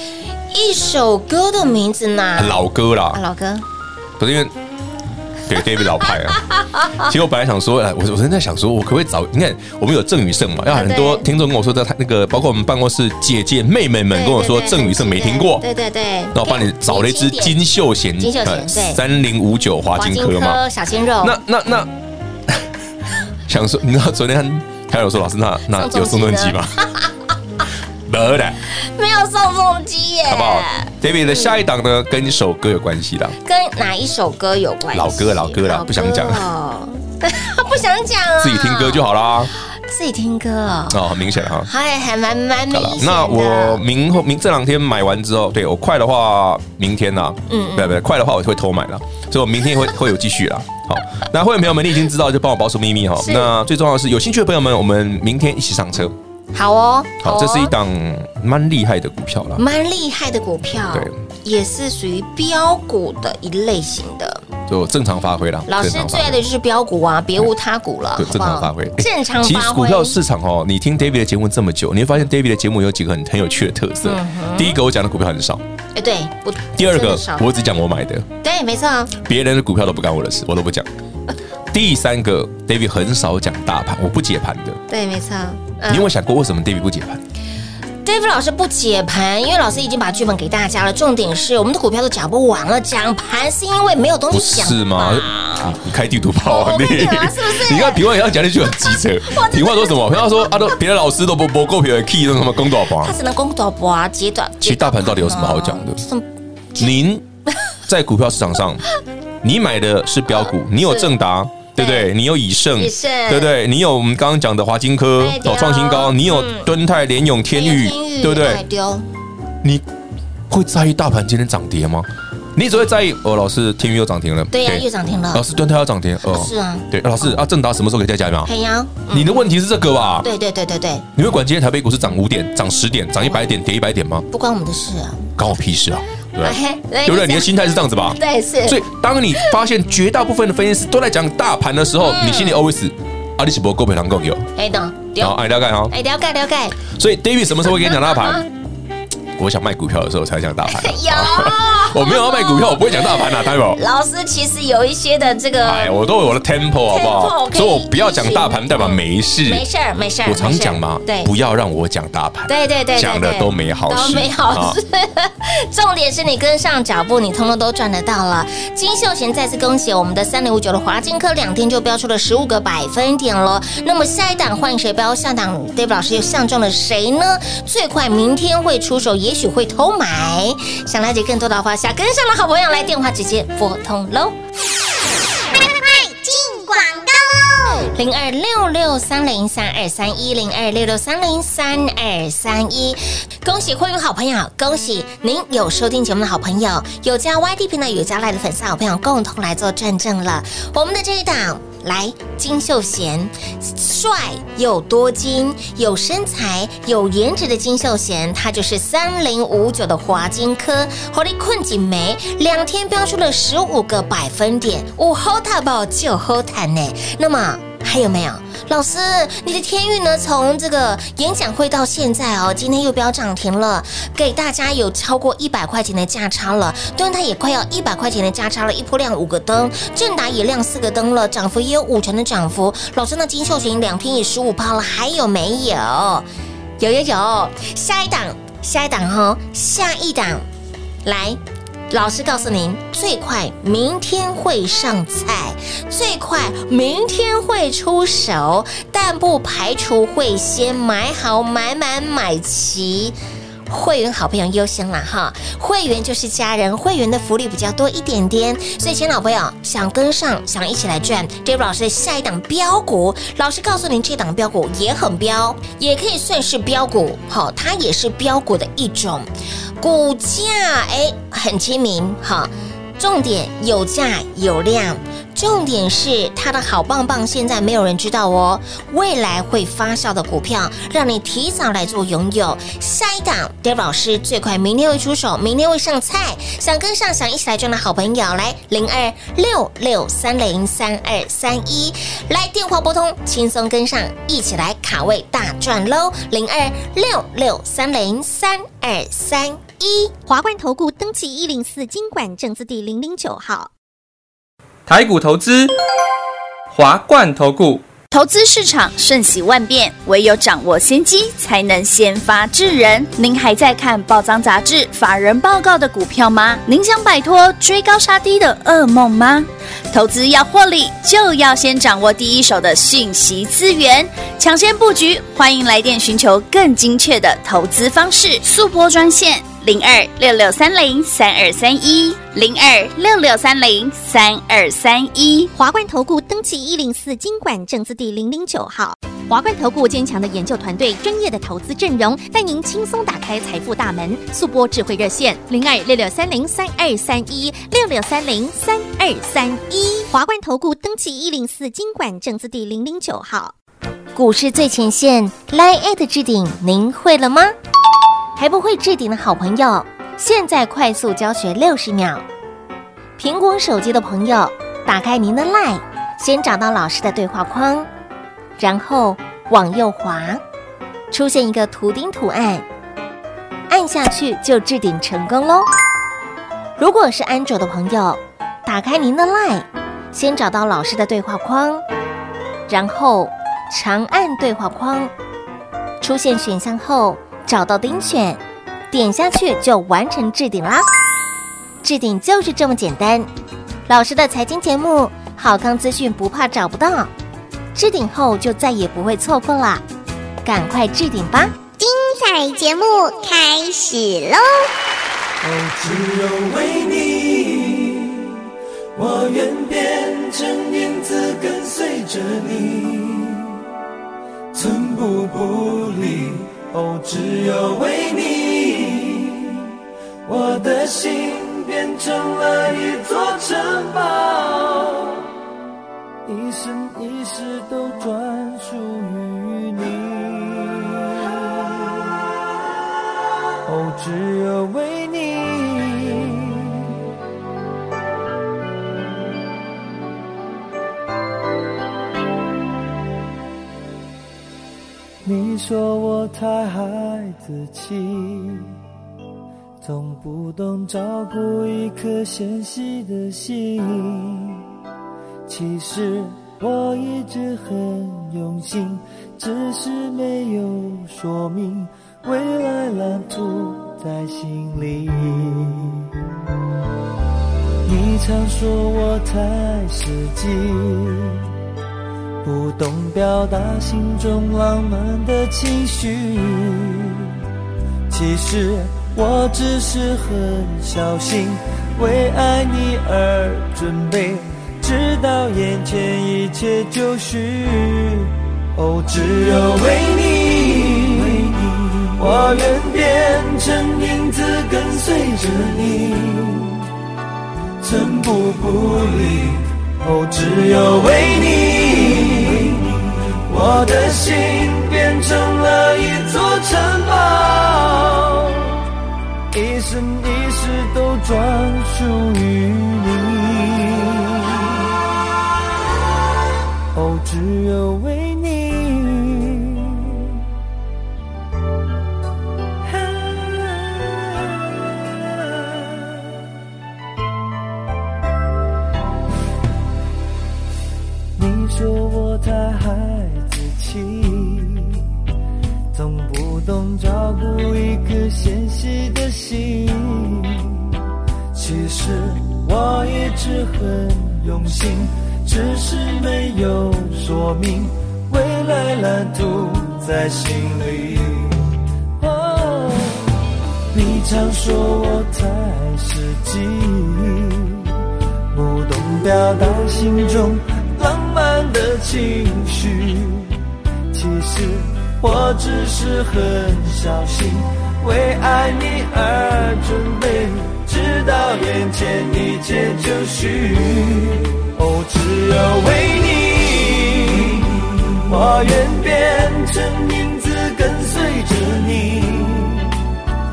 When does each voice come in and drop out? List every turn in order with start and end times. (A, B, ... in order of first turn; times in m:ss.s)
0:00.5-0:03.6 A
0:02.4-0:03.2 B
0:04.2-0:04.5 B
0:05.5-0:06.4 B
0:05.9-0:07.1 A
0:06.9-0:15.6 B
0:10.7-0:11.2 A
0:14.1-0:17.6 A
0:16.3-0:20.6 B
0:18.2-0:19.0 A
0:20.0-0:21.3 A
0:21.2-0:21.9 B
0:23.5-0:26.8 B
0:25.7-0:27.1 A
0:28.1-0:28.6 B
0:28.7-0:31.6 A
0:30.3-0:33.4 B
0:33.4-0:39.1 A
0:34.9-0:36.5 B
0:38.4-0:39.5 B
0:39.7-0:43.8 A
0:40.9-0:41.7 B
0:42.7-0:56.1 B
0:47.5-0:48.0 A
0:53.2-0:53.5 A
0:56.5-0:57.7 A
0:57.2-0:59.6 B
0:59.6-1:04.4 A
1:04.7-1:06.4 B
1:05.7-1:10.2 A
1:08.2-1:15.6 B
1:14.0-1:14.8 A
1:15.9-1:17.5 A
1:16.7-1:18.2 B
1:18.4-1:19.1 A
1:19.1-1:20.9 B
1:21.7-1:24.8 B
1:24.9-1:26.1 A
1:25.9-1:27.2 B
1:28.0-1:35.8 A
1:34.3-1:43.1 B
1:36.4-1:38.1 A
1:38.7-1:40.8 A
1:43.0-1:46.9 A
1:44.6-1:46.0 B
1:46.8-1:47.2 B
1:47.9-1:48.8 B
1:49.4-1:58.6 B
1:50.3-1:51.1 A
1:51.8-1:52.1 A
1:52.8-1:53.5 A
1:55.2-1:56.7 A
1:57.5-1:59.1 A
2:00.5-2:08.5 B
2:04.5-2:05.4 A
2:06.2-2:06.9 A
2:08.4-2:09.5 A
2:09.1-2:10.3 B
2:10.2-2:11.1 A
2:11.2-2:14.2 B
2:14.3-2:15.3 A
2:15.4-2:24.5 B
2:16.4-2:17.5 A
2:18.1-2:18.8 A
2:22.0-2:22.6 A
2:24.6-2:25.4 A
2:25.2-2:25.9 B
2:25.9-2:26.8 A
2:26.9-2:28.4 B
2:29.4-2:33.8 B
2:30.7-2:36.0 A
2:35.6-2:39.6 B
2:36.9-2:41.3 A
2:40.2-2:44.8 B
2:42.5-3:04.4 A
3:05.6-3:07.9 C
3:07.8-3:56.2 A
3:56.8-4:00.4 A
4:01.0-4:01.4 A
4:01.9-4:13.2 A
4:13.7-4:29.3 A
4:29.8-5:00.1 A
5:00.3-5:03.7 D
5:04.9-5:05.7 E
5:06.7-5:07.8 E
5:08.1-5:35.5 F
5:35.6-5:53.5 D
5:54.1-5:57.6 A
5:58.4-6:02.2 A
6:03.2-6:07.9 A
6:08.6-6:10.4 A
6:11.1-6:12.7 A
6:13.7-6:15.7 A
6:16.8-6:21.8 A
6:22.7-6:25.1 A
6:26.0-6:30.8 A
6:31.8-6:33.3 A
6:33.9-6:37.1 A
6:37.7-6:39.8 A
6:40.4-6:41.5 A
6:41.8-6:44.7 C
6:45.4-6:48.4 G
6:48.9-6:53.6 G
6:54.5-7:05.3 G
7:06.2-7:12.1 G
7:13.6-7:17.0 G
7:25.2-7:28.7 G
7:29.8-7:34.6 G
7:35.5-7:46.1 G
7:47.8-7:51.5 G
7:52.4-7:57.4 G
7:58.1-8:16.9 G
8:17.8-8:28.8 G
8:29.5-8:34.9 G
8:36.9-8:40.4 G
8:42.9-8:46.3 G
8:51.4-8:55.0 G
8:55.9-9:01.0 G
9:01.5-9:13.3 G
9:13.9-9:17.9 G
9:18.5-9:23.6 G
9:24.1-9:43.0 G